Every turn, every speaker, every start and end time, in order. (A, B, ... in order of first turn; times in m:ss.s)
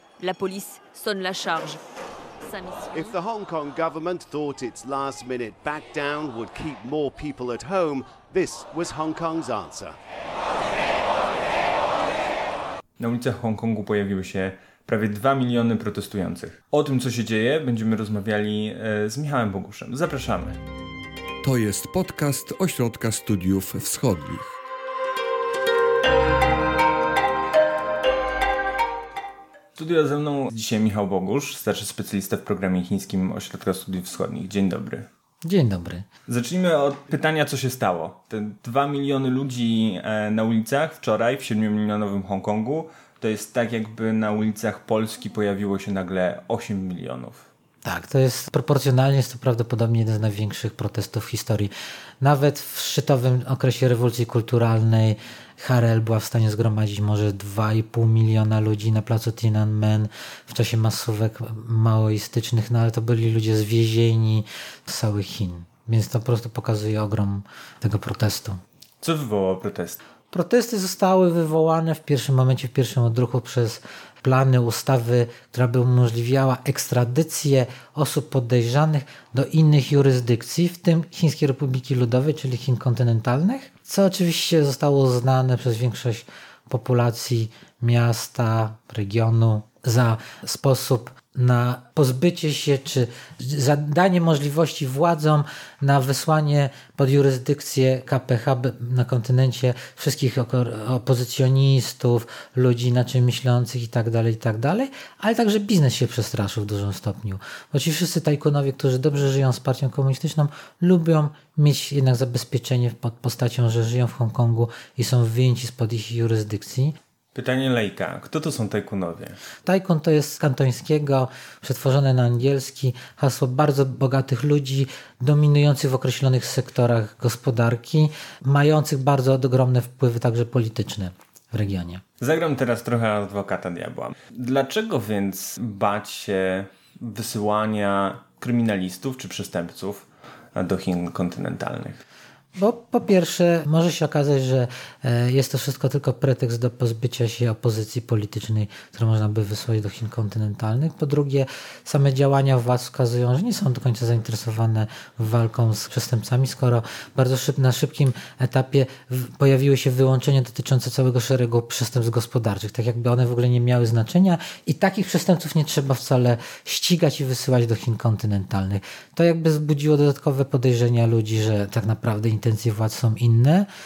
0:00.2-0:01.8 A
0:02.4-0:03.2 A
0:03.0-0:09.9 B
0:13.0-0:20.6 C
0:21.4-0:24.6 D
0:29.8-0:35.1 C
0:35.4-0:36.1 E
0:36.3-0:47.5 C
0:47.8-1:08.6 E
1:09.0-1:10.0 C
1:10.3-1:57.0 E
1:57.4-1:59.4 C
1:59.6-2:12.0 E
2:12.2-2:22.0 C
2:22.6-2:53.7 E